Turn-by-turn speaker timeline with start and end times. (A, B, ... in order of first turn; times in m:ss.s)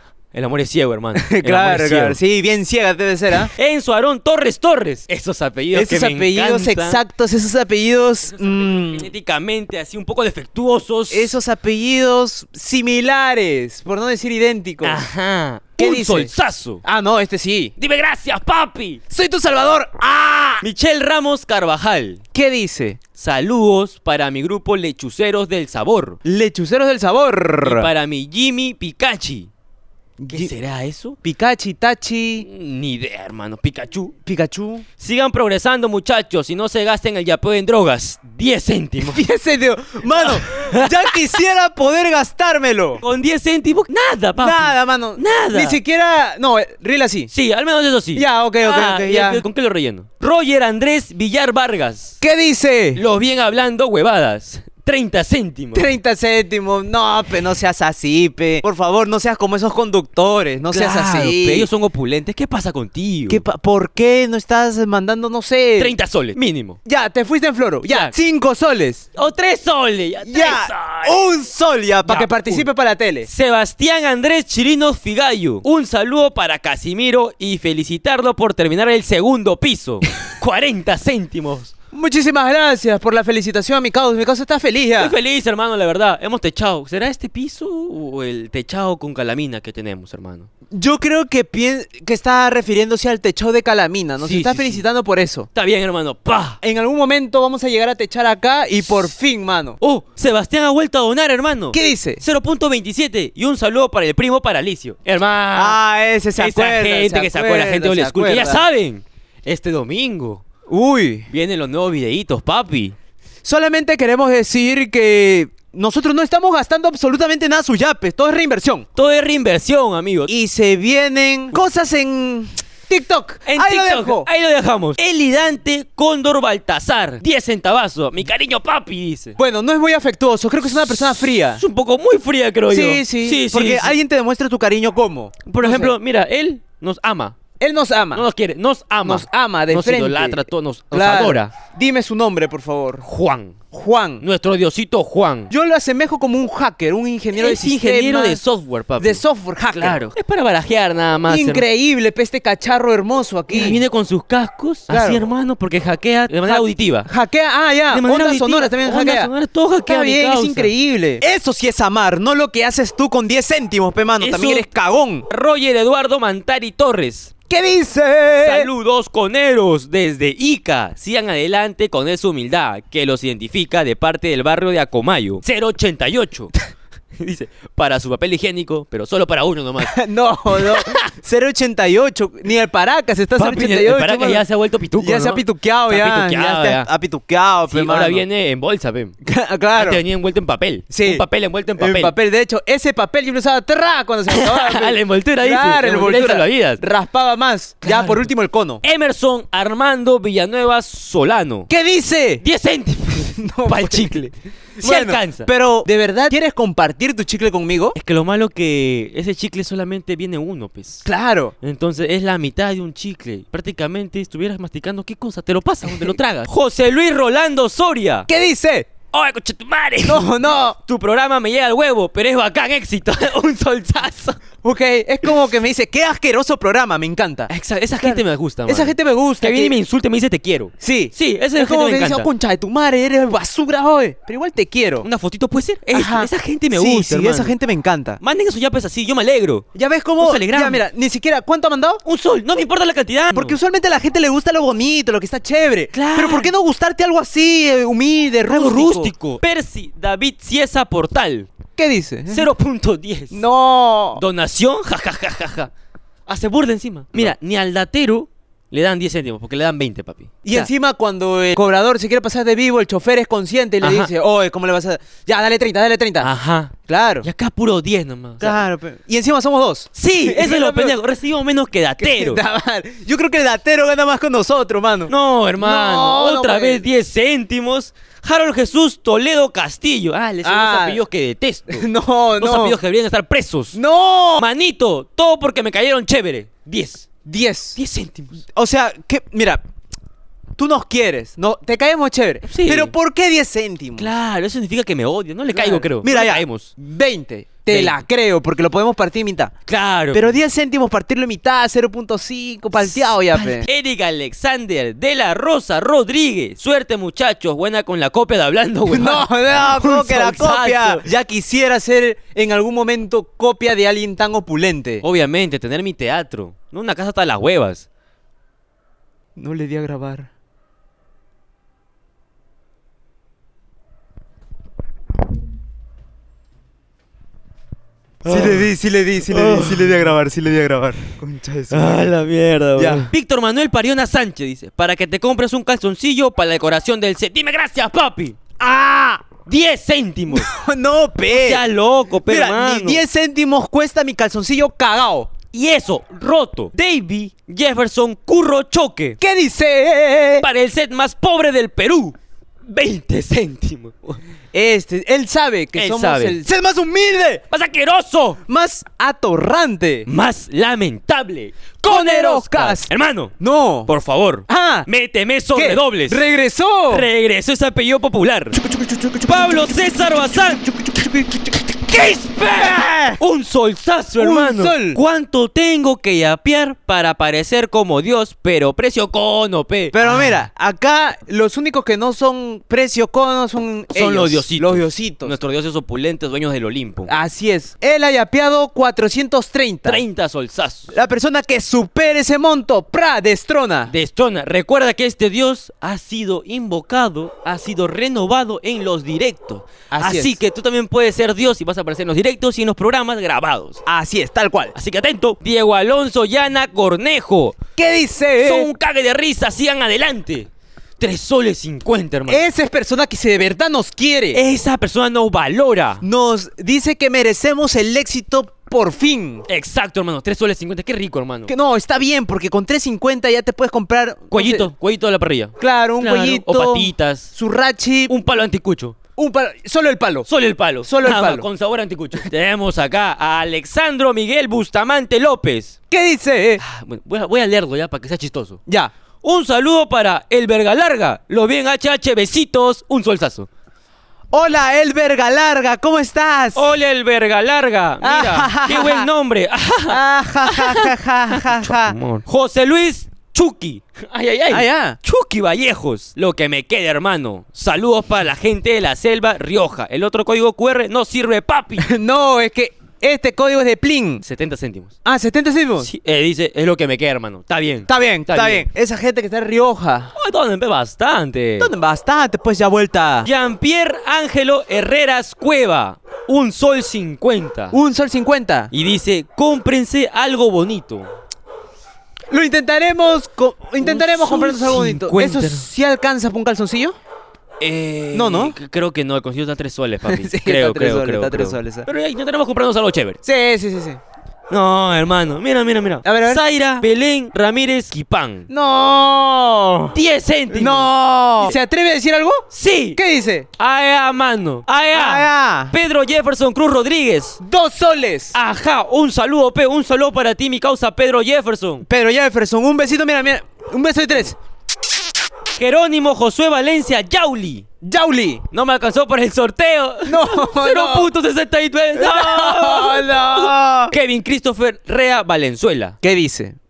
0:00.3-0:02.2 A
0:01.2-0:03.5 B
0:03.5-0:07.0 A
0:05.7-0:09.1 B
0:08.3-0:11.4 A
0:11.1-0:15.0 B
0:14.8-0:16.8 A
0:15.8-0:16.3 B
0:16.8-0:17.7 B
0:17.8-0:19.0 A
0:19.1-0:20.6 B
0:20.6-0:22.2 A
0:22.3-0:23.0 B
0:23.2-0:26.2 A
0:26.2-0:27.9 B
0:27.6-0:29.5 A
0:30.2-0:30.5 B
0:30.3-0:31.2 A
0:31.2-0:32.4 B
0:32.4-0:34.1 A
0:34.2-0:34.8 B
0:35.0-0:39.2 A
0:39.0-0:43.0 B
0:40.2-0:41.2 A
0:43.0-0:45.8 A
0:44.4-0:47.3 B
0:47.3-0:52.2 A
0:48.1-0:49.4 B
0:52.2-0:53.0 B
0:53.0-0:55.9 A
0:55.7-1:01.7 B
1:00.7-1:03.4 A
1:03.3-1:05.9 B
1:05.8-1:06.8 A
1:06.8-1:09.0 B
1:07.9-1:08.1 A
1:09.1-1:11.2 A
1:10.2-1:13.3 B
1:12.0-1:12.7 A
1:13.3-1:21.7 A
1:21.9-1:25.1 B
1:25.0-1:30.5 A
1:30.7-1:35.5 B
1:34.2-1:34.8 A
1:35.5-1:36.6 A
1:36.6-1:39.8 B
1:39.8-1:45.8 A
1:41.7-1:42.2 B
1:45.5-1:48.6 B
1:46.4-1:50.4 A
1:50.7-1:51.3 B
1:51.3-1:52.9 A
1:53.4-1:58.8 B
1:59.0-2:00.3 A
2:00.3-2:04.3 B
2:03.4-2:09.4 A
2:09.4-2:11.6 B
2:10.9-2:13.9 A
2:12.7-2:15.9 B
2:15.4-2:17.4 A
2:17.6-2:18.2 B
2:18.1-2:21.5 A
2:19.0-2:23.0 B
2:23.0-2:23.6 A
2:23.7-2:24.2 B
2:24.2-2:25.5 A
2:25.5-2:28.4 B
2:27.3-2:29.2 A
2:29.0-2:30.1 B
2:29.7-2:31.6 A
2:31.3-2:33.8 B
2:33.5-2:37.1 A
2:34.9-2:35.2 B
2:36.4-2:39.3 B
2:37.9-2:40.7 A
2:39.8-2:45.2 B
2:44.2-2:44.7 A
2:45.3-2:47.3 A
2:47.5-2:48.7 B
2:48.4-2:56.5 A
2:57.2-3:00.0 A
2:59.8-3:04.4 B
3:00.6-3:01.0 A
3:03.4-3:06.9 A
3:05.0-3:08.2 B
3:07.7-3:09.2 A
3:09.2-3:10.0 B
3:09.7-3:12.1 A
3:10.9-3:11.2 B
3:11.8-3:18.8 B
3:14.3-3:16.8 A
3:17.8-3:18.3 A
3:18.8-3:21.7 A
3:21.7-3:22.4 B
3:22.4-3:25.5 A
3:23.3-3:28.0 B
3:28.0-3:31.0 A
3:31.0-3:31.5 B
3:31.6-3:38.3 A
3:35.8-3:36.4 B
3:38.3-3:38.9 B
3:39.1-3:44.4 A
3:40.0-3:40.8 B
3:44.6-3:49.7 B
3:47.5-3:52.3 A
3:50.8-3:55.0 B
3:55.0-3:57.5 A
3:55.9-3:58.2 B
3:58.2-3:59.6 A
3:59.7-4:02.0 B
4:00.2-4:00.8 A
4:02.0-4:03.6 A
4:03.3-4:09.1 B
4:05.9-4:06.5 A
4:08.5-4:11.5 A
4:11.8-4:12.4 B
4:12.3-4:13.4 A
4:13.3-4:14.2 B
4:14.2-4:15.7 A
4:16.3-4:20.7 A
4:20.4-4:26.3 B
4:23.8-4:24.1 A
4:26.2-4:28.6 A
4:26.9-4:27.2 B
4:28.4-4:30.9 B
4:29.9-4:32.4 A
4:32.0-4:36.8 B
4:35.1-4:41.8 A
4:40.4-4:41.0 B
4:41.7-4:42.8 B
4:42.4-4:43.8 A
4:43.7-4:44.4 B
4:44.4-4:47.1 A
4:47.2-4:47.8 B
4:47.8-4:48.4 A
4:48.5-4:49.6 B
4:50.6-4:54.1 B
4:52.5-4:52.9 A
4:54.0-4:56.7 A
4:55.5-4:59.5 B
4:57.7-4:58.0 A
4:59.7-5:00.3 A
5:00.1-5:03.7 B
5:02.8-5:11.0 A
5:08.9-5:15.0 B
5:15.0-5:17.9 A
5:19.4-5:20.3 B
5:28.2-5:28.7 A
5:28.2-5:32.1 B
5:29.3-5:30.1 A
5:31.7-5:38.4 A
5:32.8-5:33.1 B
5:38.6-5:39.2 B
5:39.3-5:40.5 A
5:40.3-5:41.6 B
5:41.3-5:43.0 A
5:42.2-5:45.3 B
5:45.5-5:49.2 A
5:49.2-5:50.4 B
5:50.4-5:54.2 A
5:54.5-5:57.4 B
5:55.7-5:56.4 A
5:57.5-5:58.4 A
5:58.4-6:00.1 B
6:00.1-6:03.3 A
6:01.8-6:03.9 B
6:03.9-6:06.2 A
6:04.5-6:04.8 B
6:05.5-6:07.1 B
6:06.9-6:08.6 A
6:08.5-6:09.3 B
6:09.2-6:10.7 A
6:10.5-6:11.6 B
6:11.9-6:20.4 A
6:12.6-6:13.2 B
6:14.2-6:15.0 B
6:19.9-6:25.3 B
6:23.9-6:27.1 A
6:27.1-6:30.0 B
6:29.8-6:30.9 A
6:30.9-6:33.9 B
6:33.9-6:43.8 A
6:39.9-6:40.3 B
6:43.8-6:44.7 B
6:44.7-6:47.6 A
6:47.8-6:48.7 B
6:48.4-6:50.5 A
6:51.0-6:52.4 A
6:52.3-6:54.4 B
6:54.3-6:56.0 A
6:56.0-6:59.4 B
6:59.5-7:01.5 A
7:01.5-7:04.7 B
7:04.3-7:07.3 A
7:05.6-7:08.1 B
7:08.1-7:09.0 A
7:09.2-7:10.3 B
7:10.3-7:15.8 A
7:10.8-7:11.4 B
7:15.9-7:16.6 B
7:16.6-7:18.6 A
7:18.7-7:18.9 B
7:19.2-7:23.5 A
7:24.3-7:26.6 B
7:26.5-7:41.9 A
7:28.0-7:29.1 B
7:29.9-7:32.0 B
7:34.5-7:35.0 B
7:41.8-7:44.2 B
7:44.2-7:44.9 A
7:45.0-7:45.9 B
7:45.8-7:48.6 A
7:47.9-7:50.1 B
7:50.2-7:51.7 A
7:51.6-7:53.3 B
7:53.2-7:57.8 A
7:57.7-7:58.7 B
7:58.7-8:01.1 A
8:02.3-8:07.0 B
8:03.8-8:05.6 A
8:07.6-8:13.2 A
8:08.1-8:08.5 B
8:10.1-8:11.9 B
8:13.2-8:14.0 B
8:14.5-8:18.5 A
8:16.0-8:16.4 B
8:18.5-8:20.0 B
8:19.9-8:21.5 A
8:20.5-8:23.5 B
8:22.5-8:23.0 A
8:23.6-8:27.4 A
8:24.9-8:25.7 B
8:27.4-8:28.4 B
8:28.3-8:31.8 A
8:31.8-8:34.4 B
8:35.6-8:37.6 A
8:37.8-8:38.4 B
8:38.5-8:46.0 A
8:40.0-8:41.1 B
8:42.0-8:43.9 B
8:46.0-8:46.6 B